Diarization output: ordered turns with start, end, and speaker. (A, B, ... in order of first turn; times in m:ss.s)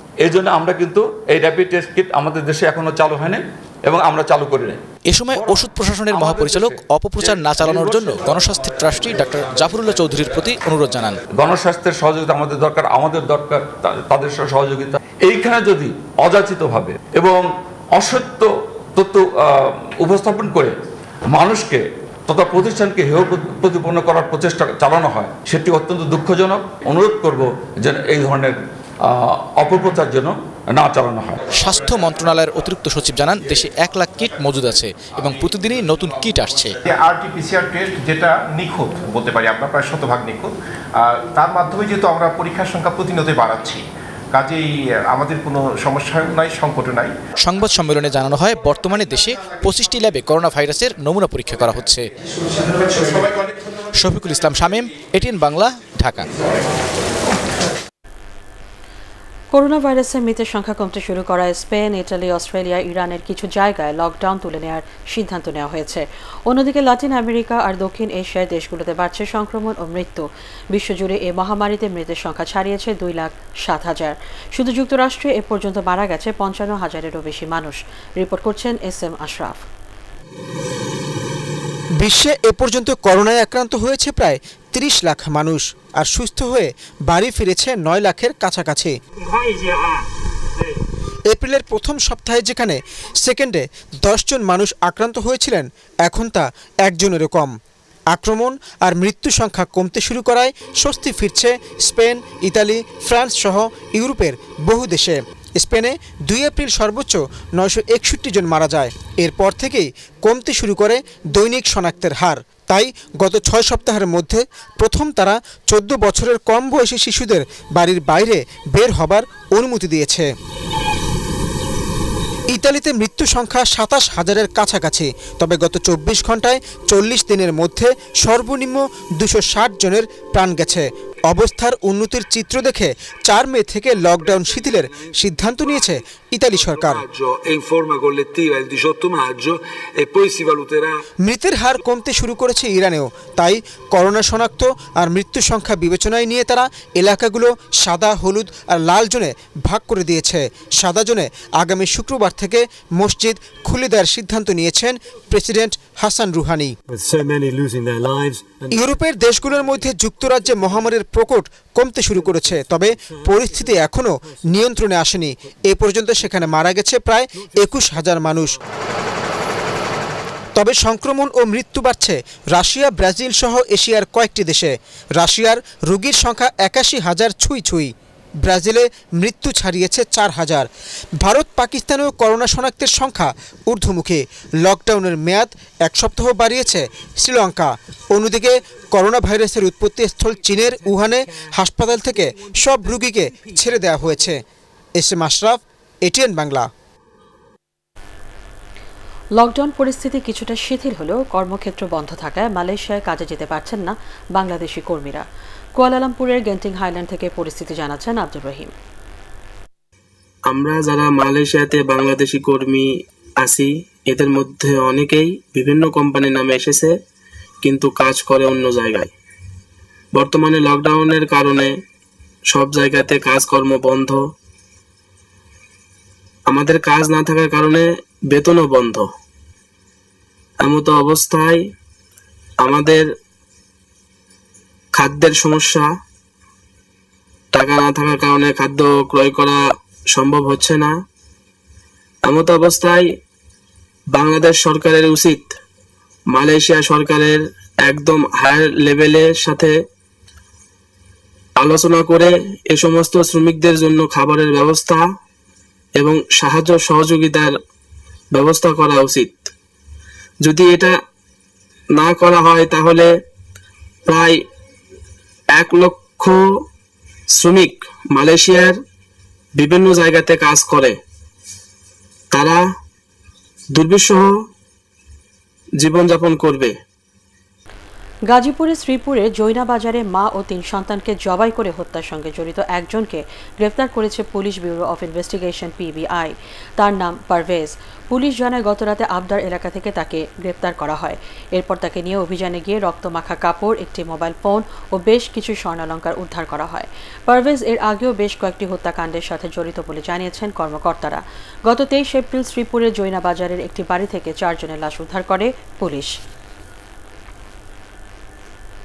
0:00.2-0:04.8 A
0:05.1-0:11.2 B
0:05.3-0:05.6 A
0:06.1-0:08.3 A
0:11.4-0:20.7 A
0:21.3-0:31.4 A
0:31.6-0:36.8 B
0:36.8-0:43.8 C
0:44.3-0:47.1 C
0:47.4-0:52.1 B
0:52.9-0:53.4 C
0:54.0-0:56.3 B
0:59.5-1:19.6 D
1:22.0-1:29.0 E
1:31.3-1:37.5 E
1:38.1-2:00.3 E
2:02.5-2:17.0 E
2:21.2-2:36.8 E
2:38.7-2:48.6 E
2:50.6-3:00.7 E
3:01.2-3:14.4 E
3:15.0-3:16.7 E
3:19.4-3:25.3 D
3:25.8-3:28.7 D
3:30.5-3:32.9 F
3:33.4-3:36.9 F
3:37.6-3:39.1 F
3:40.2-3:41.7 F
3:42.5-3:44.2 F
3:46.5-3:49.1 F
3:50.6-3:51.6 F
3:52.6-3:53.1 F
3:54.9-3:55.9 F
3:57.5-4:00.9 F
4:02.2-4:03.1 F
4:04.1-4:05.6 F
4:06.3-4:09.8 F
4:11.6-4:15.1 F
4:16.0-4:17.5 F
4:18.3-4:19.5 F
4:20.4-4:21.0 F
4:22.0-4:23.1 F
4:24.1-4:24.4 F
4:25.5-4:26.4 F
4:27.4-4:28.8 F
4:29.6-4:31.0 F
4:32.3-4:32.6 F
4:33.8-4:34.4 F
4:35.8-4:36.7 F
4:38.3-5:06.2 D